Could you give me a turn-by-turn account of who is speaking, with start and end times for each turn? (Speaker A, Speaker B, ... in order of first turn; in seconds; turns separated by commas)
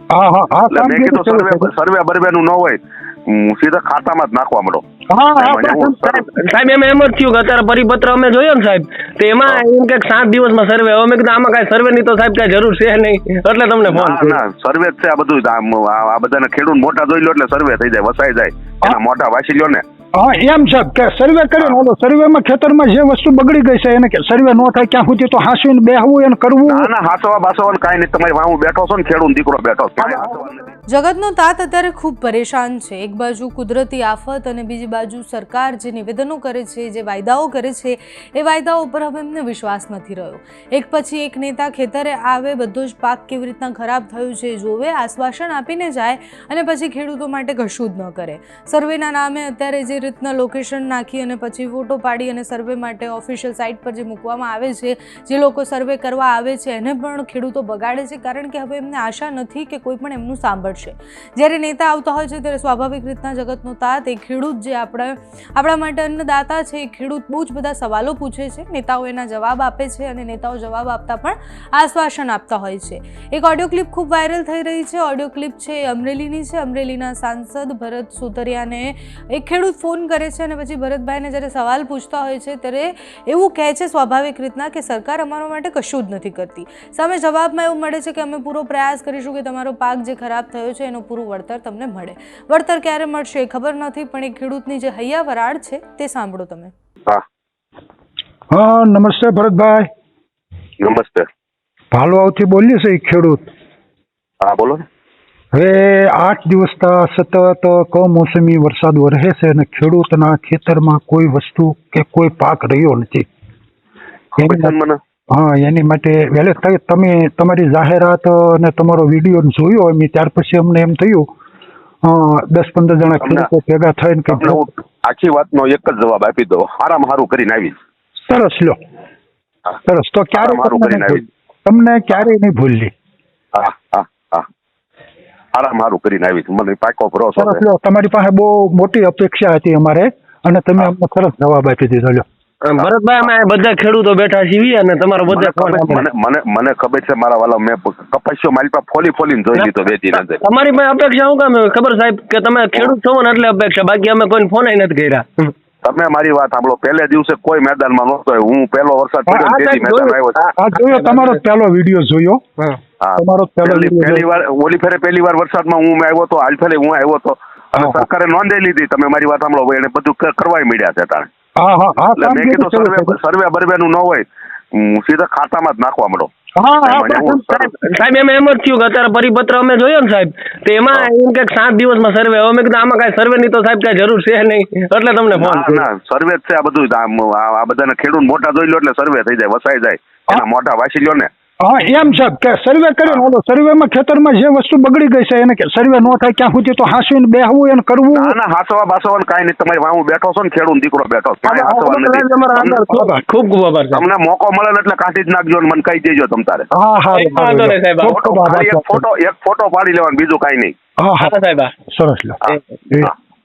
Speaker A: 0.1-1.7, Speaker B: 0.7-4.8, Speaker A: 5.1-5.9, Speaker B: 5.4-6.2, Speaker C: 5.8-14.4, Speaker B: 13.9-19.8, Speaker A: 20.1-26.9, Speaker B: 26.6-30.7, Speaker D: 30.9-96.7, Speaker A: 98.5-99.9, Speaker B: 100.8-101.3, Speaker A: 101.9-103.5, Speaker B: 104.4-104.8, Speaker A: 105.5-113.3, Speaker B: 114.4-115.0, Speaker A: 114.4-114.7, Speaker A: 115.3-121.3, Speaker A: 122.0-124.7, Speaker B: 123.2-123.5, Speaker B: 124.3-127.7, Speaker A: 128.3-128.8, Speaker A: 129.8-132.9, Speaker B: 130.3-131.2, Speaker B: 133.5-134.5, Speaker B: 135.5-137.6, Speaker A: 137.3-142.2, Speaker C: 142.7-146.1, Speaker B: 142.8-143.3, Speaker B: 145.3-150.4, Speaker C: 149.5-155.5, Speaker B: 155.8-160.4, Speaker A: 159.3-159.6, Speaker C: 159.5-161.4, Speaker A: 160.6-162.4, Speaker B: 163.0-171.3, Speaker A: 163.2-164.2, Speaker A: 167.8-168.1, Speaker A: 171.6-173.2, Speaker B: 172.2-176.3, Speaker A: 176.6-177.4, Speaker B: 176.8-177.7, Speaker C: 177.5-185.8, Speaker B: 185.3-191.3, Speaker A: 191.6-198.3, Speaker B: 198.1-203.0, Speaker C: 201.4-204.0, Speaker A: 202.9-203.2, Speaker B: 203.9-206.7, Speaker A: 206.7-209.0, Speaker C: 207.1-208.2, Speaker B: 208.1-210.8, Speaker A: 211.0-211.3, Speaker C: 211.2-211.7, Speaker A: 211.9-213.1, Speaker B: 212.5-213.1